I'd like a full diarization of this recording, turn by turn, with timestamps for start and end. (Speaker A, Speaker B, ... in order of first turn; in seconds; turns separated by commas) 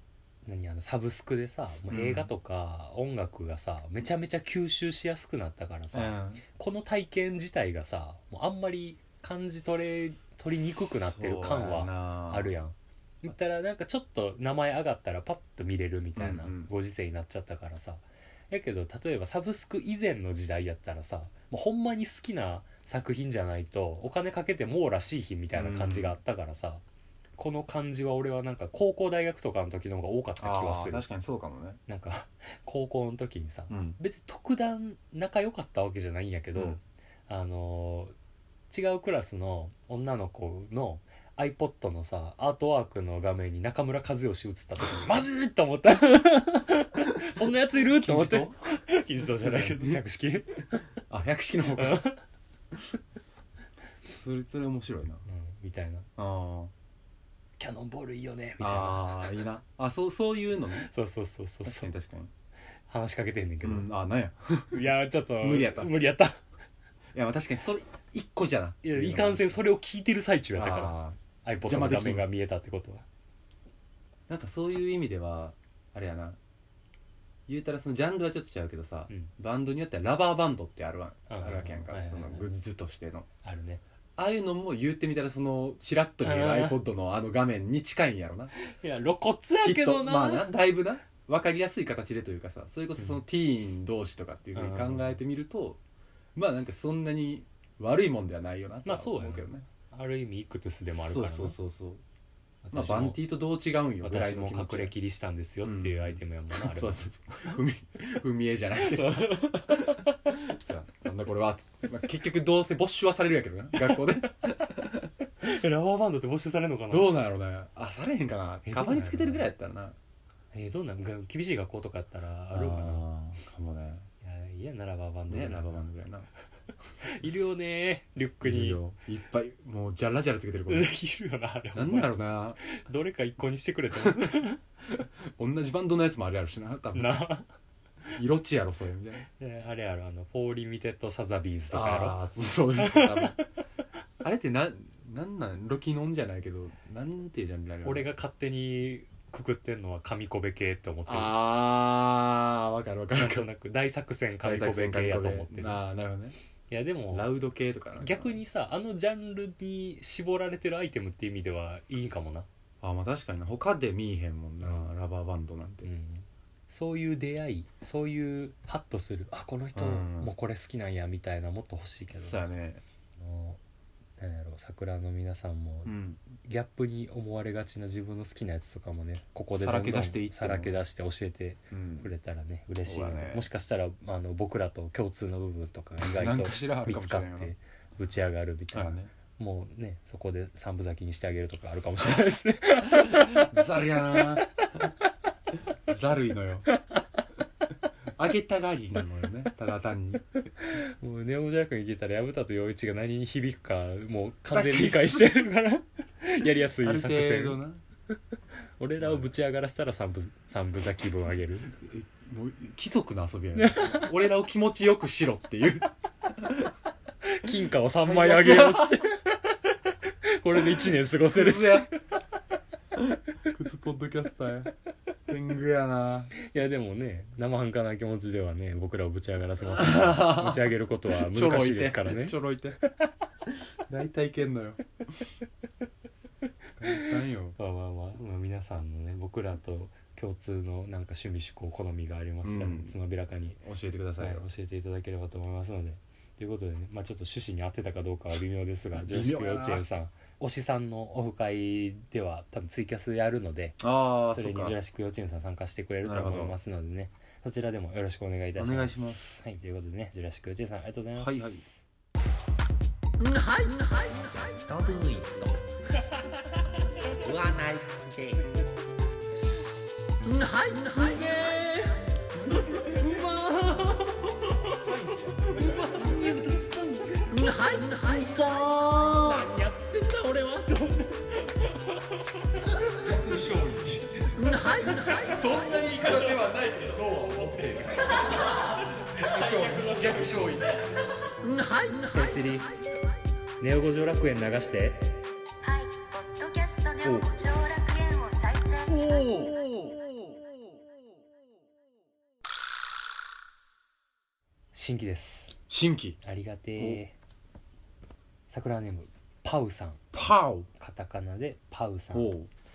Speaker A: 0.5-26.8, Speaker B: 1.9-2.3, Speaker B: 5.9-6.4, Speaker B: 11.0-12.5, Speaker B: 16.2-16.7, Speaker B: 25.5-26.2, Speaker A: 27.4-31.0, Speaker B: 30.4-31.8, Speaker A: 31.9-38.1, Speaker B: 33.7-34.0, Speaker A: 38.7-50.8, Speaker B: 47.8-48.6, Speaker B: 49.4-50.0, Speaker B: 51.1-52.0, Speaker A: 51.8-52.2, Speaker B: 54.1-55.2, Speaker A: 55.3-56.1, Speaker B: 56.2-56.7, Speaker A: 57.6-59.3, Speaker B: 58.6-60.9, Speaker A: 60.8-61.9, Speaker B: 61.6-62.3, Speaker A: 62.9-63.9, Speaker B: 63.6-64.8, Speaker A: 64.7-66.4, Speaker B: 65.4-65.9, Speaker B: 67.1-69.6, Speaker A: 68.8-73.0, Speaker B: 70.6-72.3, Speaker B: 74.3-76.4, Speaker B: 77.5-83.3, Speaker A: 81.3-82.5, Speaker A: 83.4-83.8, Speaker B: 84.2-88.5, Speaker A: 86.2-86.8, Speaker A: 88.6-90.5, Speaker B: 89.6-95.8, Speaker A: 93.0-93.2, Speaker A: 94.5-95.2, Speaker B: 96.4-99.7, Speaker A: 98.8-101.6, Speaker B: 100.9-102.0, Speaker A: 102.6-103.2, Speaker B: 102.7-104.9, Speaker A: 104.0-107.6, Speaker B: 105.6-115.1, Speaker A: 108.9-110.2, Speaker A: 113.8-114.2, Speaker A: 115.4-117.1, Speaker B: 116.9-120.0, Speaker A: 118.7-119.5, Speaker A: 120.5-123.0, Speaker B: 122.5-124.1, Speaker A: 124.2-125.8, Speaker B: 125.3-126.3, Speaker A: 127.0-128.8, Speaker B: 128.4-130.9, Speaker A: 130.7-134.6, Speaker B: 131.8-132.6, Speaker B: 134.0-134.2, Speaker B: 134.9-137.2, Speaker A: 136.9-137.5, Speaker B: 138.2-139.3, Speaker A: 139.3-142.2, Speaker B: 141.7-143.4, Speaker A: 142.8-143.5, Speaker B: 144.2-148.1, Speaker A: 147.8-151.3, Speaker B: 151.1-153.5, Speaker A: 153.2-155.8, Speaker B: 154.4-156.4, Speaker A: 156.7-157.3, Speaker B: 157.1-158.4, Speaker A: 158.0-162.5, Speaker B: 162.8-165.9, Speaker A: 164.6-164.9, Speaker A: 165.8-172.4, Speaker B: 169.8-170.3, Speaker B: 172.2-172.8, Speaker A: 173.2-173.6, Speaker A: 174.2-194.5, Speaker B: 175.8-176.2, Speaker B: 179.6-180.8, Speaker B: 181.7-182.1, Speaker B: 182.8-183.4, Speaker B: 186.0-187.5, Speaker B: 188.7-189.1, Speaker B: 192.9-194.5, Speaker B: 195.9-196.7, Speaker A: 196.7-197.0, Speaker B: 198.2-200.2, Speaker A: 200.6-207.6, Speaker B: 204.5-205.3, Speaker B: 206.8-207.8, Speaker A: 208.8-211.7, Speaker B: 209.0-209.3, Speaker B: 211.8-215.9, Speaker A: 213.6-214.2, Speaker A: 217.2-222.0, Speaker B: 218.1-218.9, Speaker B: 221.3-221.9, Speaker B: 223.0-224.7, Speaker B: 225.3-226.3, Speaker A: 226.4-232.4, Speaker B: 229.7-232.8, Speaker B: 233.9-234.8, Speaker B: 236.8-237.6, Speaker A: 237.6-243.6, Speaker B: 242.4-242.9, Speaker B: 243.6-244.5, Speaker A: 244.2-261.3, Speaker B: 248.9-249.8, Speaker B: 253.8-254.8, Speaker B: 256.0-256.6, Speaker B: 258.6-259.2, Speaker B: 261.2-261.6, Speaker C: 264.3-265.6, Speaker C: 267.2-268.5, Speaker C: 270.5-271.0, Speaker A: 270.9-283.2, Speaker B: 275.2-275.9, Speaker B: 282.9-290.9, Speaker A: 284.7-286.4, Speaker A: 288.1-290.9, Speaker A: 292.1-292.7, Speaker A: 293.6-295.2, Speaker D: 295.6-298.8, Speaker C: 295.9-298.7, Speaker B: 297.0-297.3, Speaker B: 298.9-300.4, Speaker A: 304.7-305.6, Speaker B: 305.7-306.2, Speaker A: 306.2-307.1, Speaker A: 308.5-310.0, Speaker B: 310.1-310.7, Speaker A: 310.8-312.3, Speaker B: 312.1-312.5